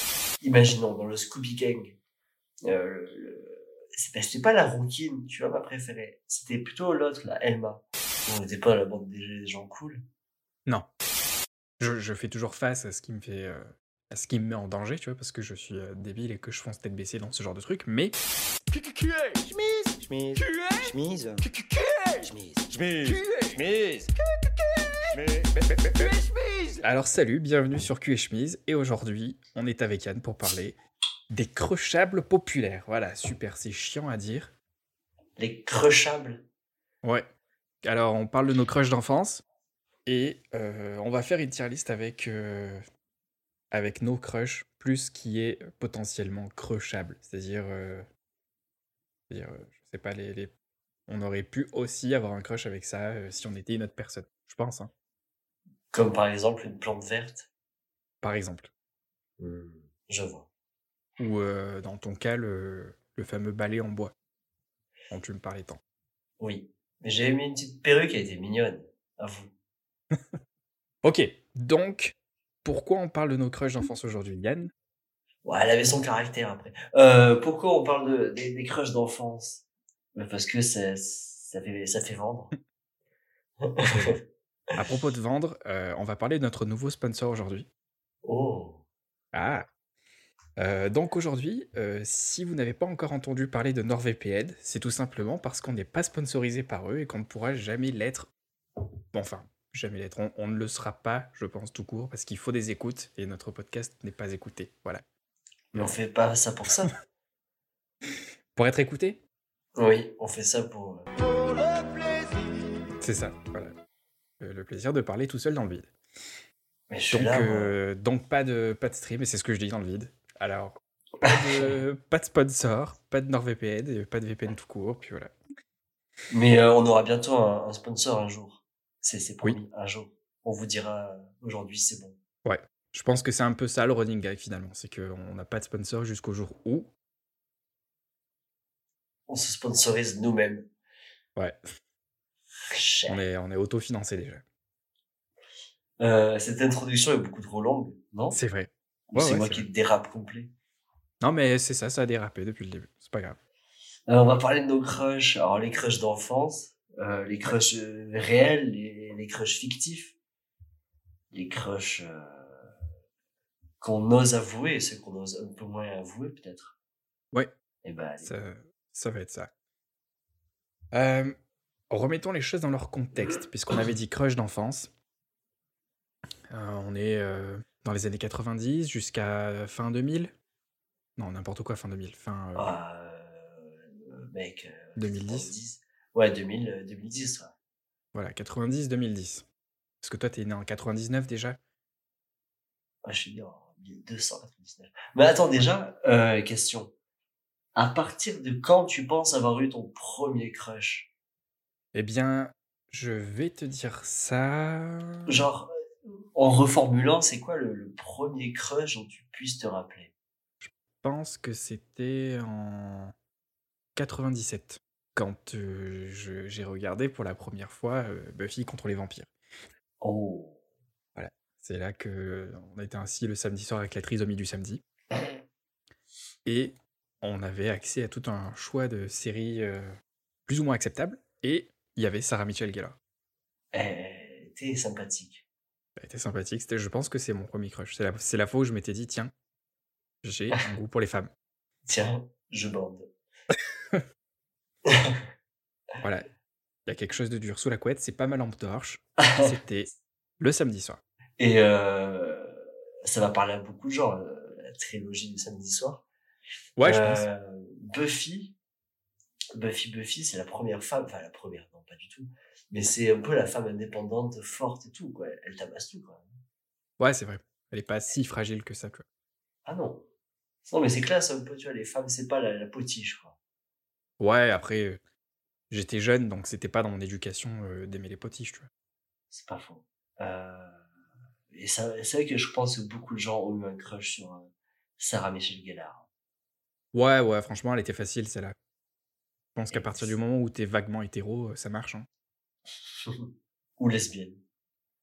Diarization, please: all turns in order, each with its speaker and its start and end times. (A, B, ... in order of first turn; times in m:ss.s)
0:00.4-0:02.0 A
0:02.6-0:10.0 A
0:11.8-0:18.1 B
0:18.7-0:24.1 C
0:25.1-0:26.8 C
0:26.8-0:30.8 B
0:31.3-0:34.5 B
0:35.4-0:36.4 A
0:37.8-0:39.4 B
0:40.0-0:42.8 B
0:43.7-0:48.0 B
0:49.3-0:50.5 B
0:51.1-0:54.9 B
0:55.9-0:57.5 A
0:58.2-0:58.7 B
0:59.4-1:00.5 A
1:01.2-1:04.1 B
1:05.1-1:05.8 B
1:06.4-1:09.5 A
1:11.0-1:14.7 B
1:15.4-1:22.5 A
1:23.6-1:24.2 A
1:23.8-1:24.2 B
1:24.8-1:27.7 B
1:28.2-1:28.8 A
1:29.3-1:29.6 B
1:30.6-1:38.3 B
1:39.1-1:45.0 B
1:45.7-1:46.9 A
1:48.6-1:49.2 B
1:49.8-1:51.1 A
1:53.0-1:53.7 B
1:54.4-1:55.9 B
1:56.9-1:57.8 A
1:57.1-2:05.3 B
2:01.2-2:01.7 A
2:06.3-2:12.2 A
2:12.4-2:16.9 B
2:19.3-2:20.6 A
2:22.7-2:23.2 A
2:23.1-2:24.4 B
2:26.0-2:28.4 A
2:28.3-2:29.6 B
2:29.1-2:30.5 A
2:31.2-2:33.4 B
2:34.1-2:40.1 A
2:41.3-2:42.7 A
2:43.8-2:46.8 A
2:47.8-2:48.3 A
2:48.2-2:49.5 B
2:50.9-2:51.3 B
2:51.9-2:54.9 B
2:56.5-3:00.3 B
3:01.2-3:02.8 B
3:02.6-3:07.5 A
3:05.0-3:05.5 B
3:08.1-3:09.4 B
3:10.0-3:11.6 B
3:13.0-3:16.9 A
3:17.7-3:21.1 A
3:21.9-3:25.3 B
3:25.3-3:25.7 A
3:26.3-3:30.1 A
3:30.6-3:33.1 B
3:34.0-3:39.3 B
3:40.0-3:40.6 A
3:41.2-3:44.8 B
3:46.4-3:49.9 B
3:50.4-3:53.0 B
3:53.7-3:55.4 A
3:56.0-3:59.3 B
4:00.2-4:01.3 B
4:01.8-4:03.1 A
4:04.8-4:05.2 A
4:06.0-4:06.3 B
4:06.8-4:11.0 B
4:09.2-4:09.5 A
4:11.4-4:16.0 A
4:16.8-4:17.2 B
4:16.8-4:18.5 A
4:19.5-4:26.3 A
4:27.0-4:29.0 B
4:29.6-4:30.0 A
4:30.6-4:33.4 A
4:34.2-4:35.0 B
4:35.7-4:38.7 B
4:39.3-4:40.8 A
4:41.5-4:46.0 A
4:46.9-4:48.5 B
4:49.5-4:52.1 B
4:49.7-4:50.1 A
4:53.0-4:54.4 A